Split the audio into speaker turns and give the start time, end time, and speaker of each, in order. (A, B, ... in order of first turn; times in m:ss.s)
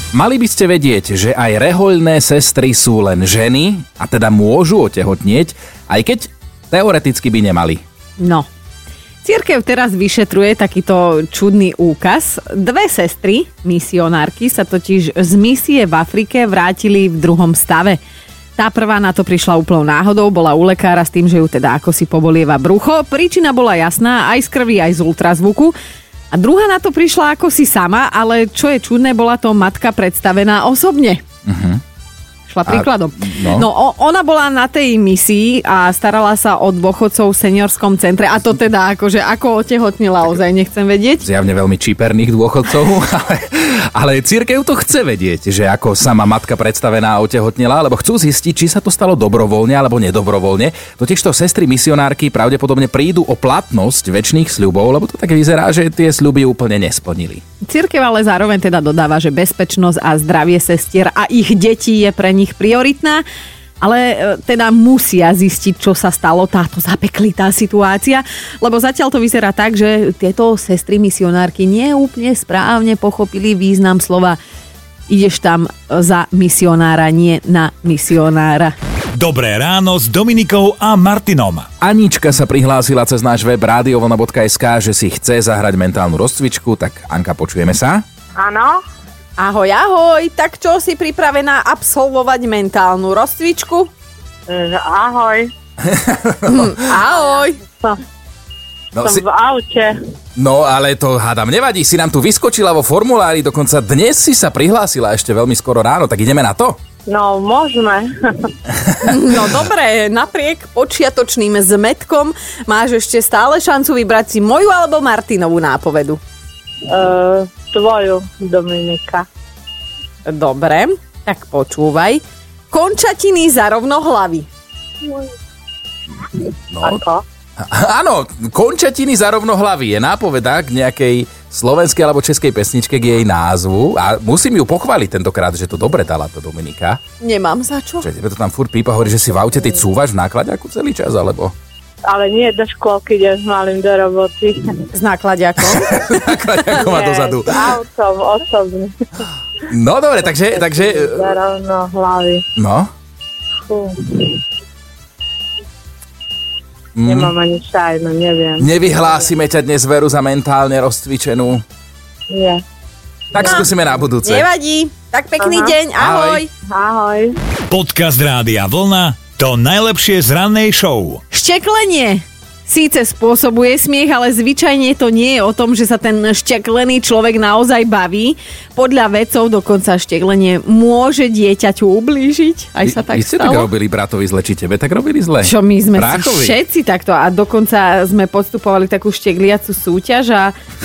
0:00.1-0:07.8 A
0:08.2-0:08.5 B
0:09.2-0:18.0 B
0:18.6-0:25.7 B
0:26.3-0:31.2 B
0:31.4-0:31.8 A
0:32.5-0:41.2 B
0:32.6-0:33.7 A
0:41.2-0:57.4 A
0:57.6-1:03.2 B
1:03.8-1:14.4 B
1:15.1-1:18.7 B
1:19.2-1:21.7 C
1:21.8-1:28.0 A
1:28.4-1:28.8 D
1:29.4-1:33.9 B
1:34.5-1:35.5 D
1:35.8-1:36.8 A
1:36.5-1:37.6 B
1:37.7-1:38.0 D
1:38.9-1:39.2 A
1:39.0-1:39.9 D
1:40.4-1:46.8 A
1:47.1-1:48.1 D
1:49.0-1:56.2 B
1:56.9-1:59.2 D
2:00.2-2:04.5 B
2:06.7-2:07.0 A
2:06.8-2:07.2 D
2:07.7-2:17.0 A
2:17.2-2:18.1 B
2:18.0-2:21.5 A
2:22.0-2:24.8 D
2:24.9-2:25.9 B
2:25.6-2:27.8 A
2:26.8-2:28.9 D
2:29.7-2:31.4 A
2:30.5-2:32.4 D
2:32.6-2:32.9 A
2:33.7-2:34.4 D
2:37.0-2:37.3 A
2:37.0-2:38.7 D
2:38.6-2:41.6 A
2:42.3-2:42.6 D
2:43.3-2:44.5 A
2:43.4-2:43.7 B
2:44.2-2:46.5 B
2:45.4-2:45.7 D
2:46.0-2:46.4 A
2:46.7-2:47.3 D
2:47.7-2:51.2 C
2:51.3-3:03.7 B
3:02.8-3:06.6 A
3:05.4-3:10.5 B